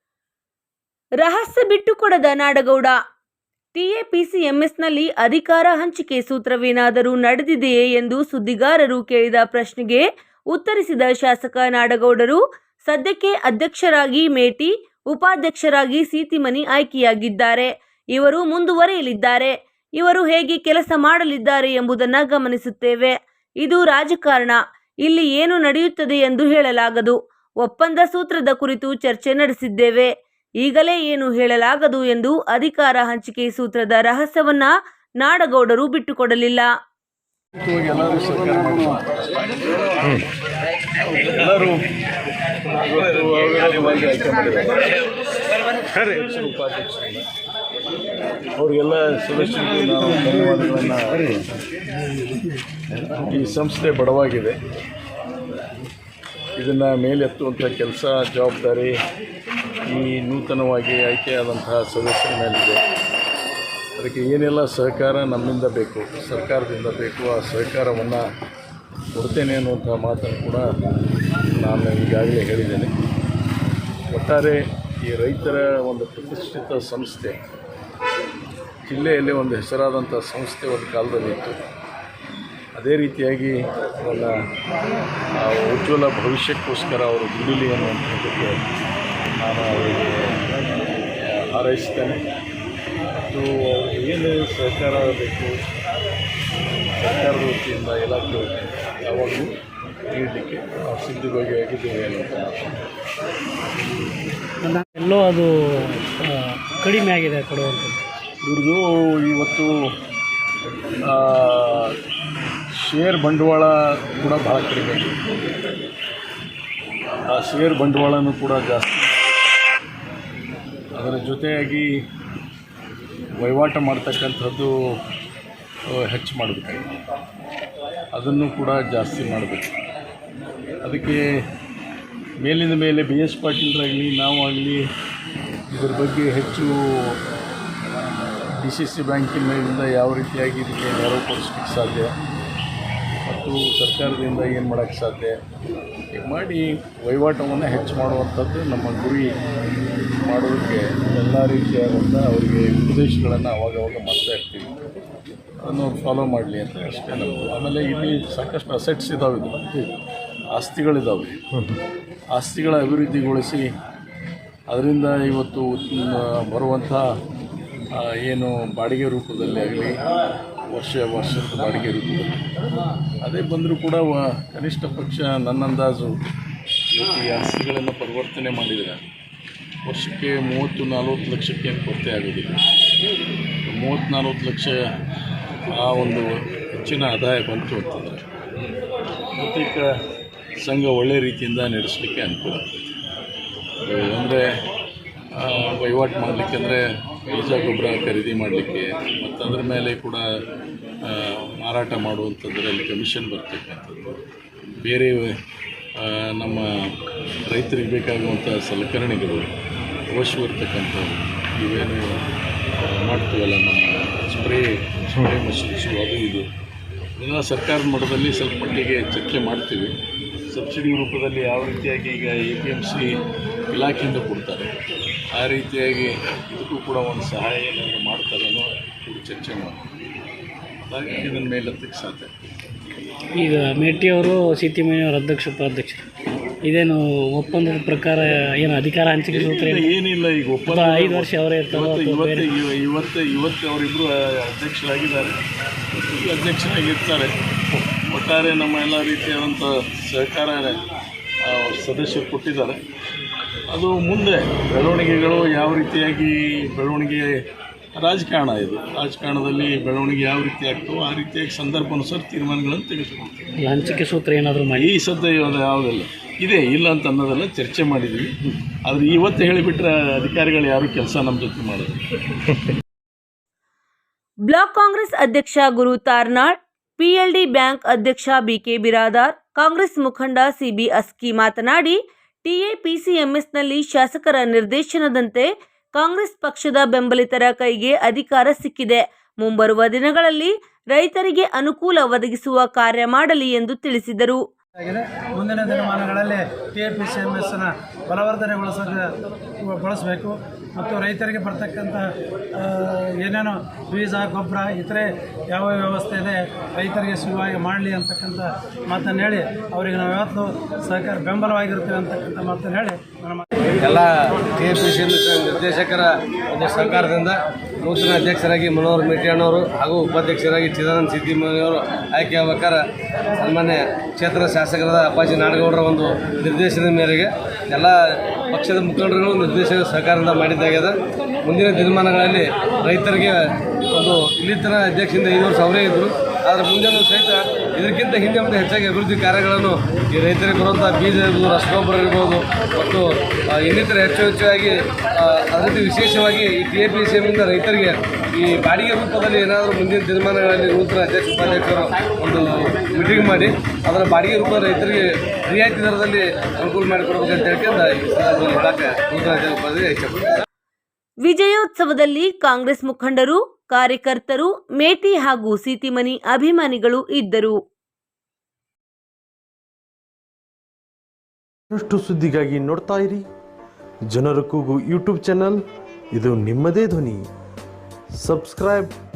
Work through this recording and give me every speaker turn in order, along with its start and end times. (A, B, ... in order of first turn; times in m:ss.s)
0:01.2-0:03.0 A
0:03.8-0:36.7 A
0:37.6-0:39.9 B
0:41.2-0:41.9 B
0:42.7-0:44.9 B
0:45.8-0:47.2 B
0:48.6-0:51.5 B
0:53.2-0:54.6 B
0:56.6-0:59.0 B
0:59.8-1:02.8 B
1:04.0-1:08.2 B
1:09.2-1:10.6 B
1:11.5-1:12.9 B
1:14.1-1:17.4 B
1:18.9-1:21.6 B
1:22.8-1:24.3 B
1:25.4-1:28.6 B
1:29.4-1:30.4 B
1:31.2-1:32.2 B
1:33.3-1:35.7 B
1:36.9-1:39.6 B
1:40.1-1:42.8 B
1:44.6-1:48.0 C
1:48.4-1:49.9 B
1:51.0-1:52.0 B
1:52.7-1:55.2 B
1:57.3-1:59.6 B
2:01.0-2:01.9 B
2:03.4-2:04.7 B
2:05.9-2:06.9 B
2:08.1-2:09.8 B
2:10.8-2:11.2 B
2:12.4-2:14.8 B
2:15.7-2:17.2 B
2:18.5-2:22.1 B
2:23.3-2:25.4 B
2:26.1-2:29.4 B
2:30.2-2:34.7 B
2:35.6-2:39.7 B
2:40.5-2:41.4 B
2:42.3-2:43.7 B
2:44.7-2:47.1 B
2:47.9-2:50.0 B
2:50.7-2:52.4 B
2:53.2-2:56.2 B
2:56.9-2:59.0 B
2:59.8-3:02.6 B
3:03.7-3:04.8 B
3:05.7-3:08.3 B
3:09.3-3:09.8 B
3:10.6-3:13.0 B
3:13.8-3:14.5 B
3:15.3-3:20.2 B
3:21.0-3:24.1 B
3:24.8-3:25.3 B
3:26.0-3:26.7 B
3:27.5-3:29.5 B
3:30.1-3:32.3 B
3:32.8-3:36.5 B
3:37.2-3:39.9 B
3:40.5-3:43.2 B
3:43.7-3:44.7 B
3:45.3-3:49.9 B
3:50.9-3:52.3 B
3:53.3-3:56.0 C
3:56.6-4:00.0 C
3:59.3-4:05.4 B
4:00.7-4:02.5 C
4:06.0-4:10.8 B
4:11.4-4:12.8 B
4:13.7-4:17.4 B
4:18.0-4:23.5 B
4:23.6-4:24.9 C
4:24.7-4:28.3 B
4:28.8-4:32.0 B
4:34.5-4:54.4 A
4:54.8-4:59.1 D
4:59.6-5:02.0 D
5:02.6-5:13.4 D
5:13.8-5:22.8 E
5:23.4-6:00.3 E
6:01.2-6:07.6 A
6:11.7-6:13.2 F
6:14.1-6:15.6 F
6:16.1-6:17.2 F
6:18.2-6:18.9 F